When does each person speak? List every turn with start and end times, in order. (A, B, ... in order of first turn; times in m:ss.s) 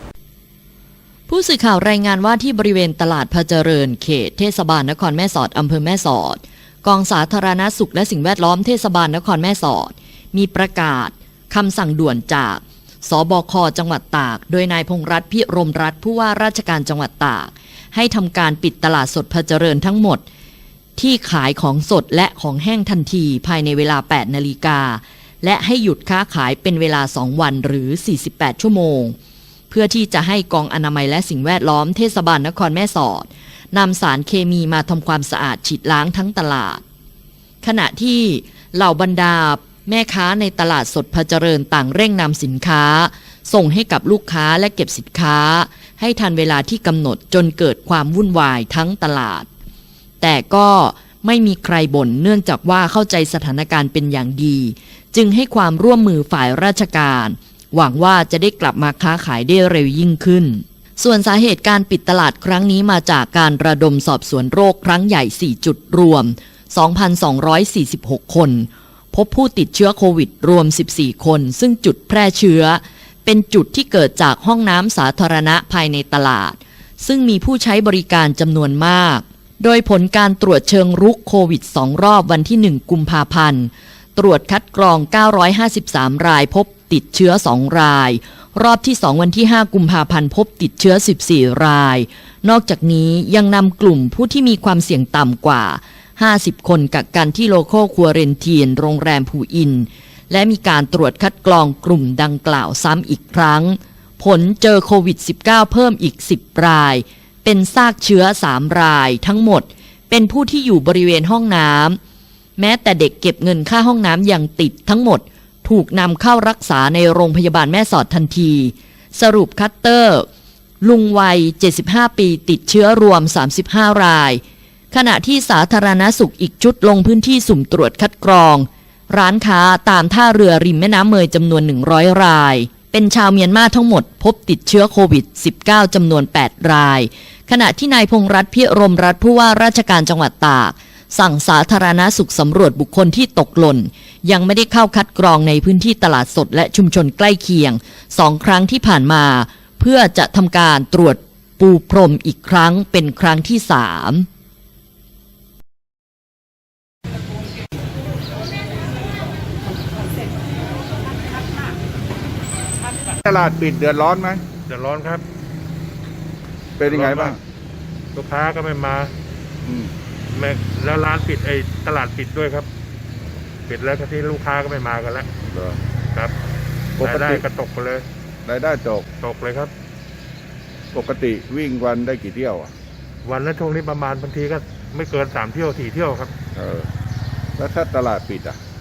0:01.3-0:20.2 A
0:21.0-0:29.1 A
0:29.7-0:36.8 A
0:37.6-0:49.5 A
0:50.2-1:52.0 A
1:52.6-2:00.2 A
2:00.8-2:34.3 A
2:43.2-2:44.4 B
2:44.7-2:45.2 C
2:46.8-2:47.4 B
2:46.8-2:47.4 C
2:48.1-2:49.1 C
2:49.6-2:49.9 B
2:50.3-2:52.7 C
2:53.7-2:55.3 C
2:55.4-2:55.8 B
2:57.0-2:57.4 B
2:57.0-2:58.0 C
2:58.4-2:59.1 B
2:59.2-2:59.7 C
3:00.9-3:02.7 B
3:03.2-3:06.3 C
3:06.5-3:06.9 B
3:07.6-3:08.6 B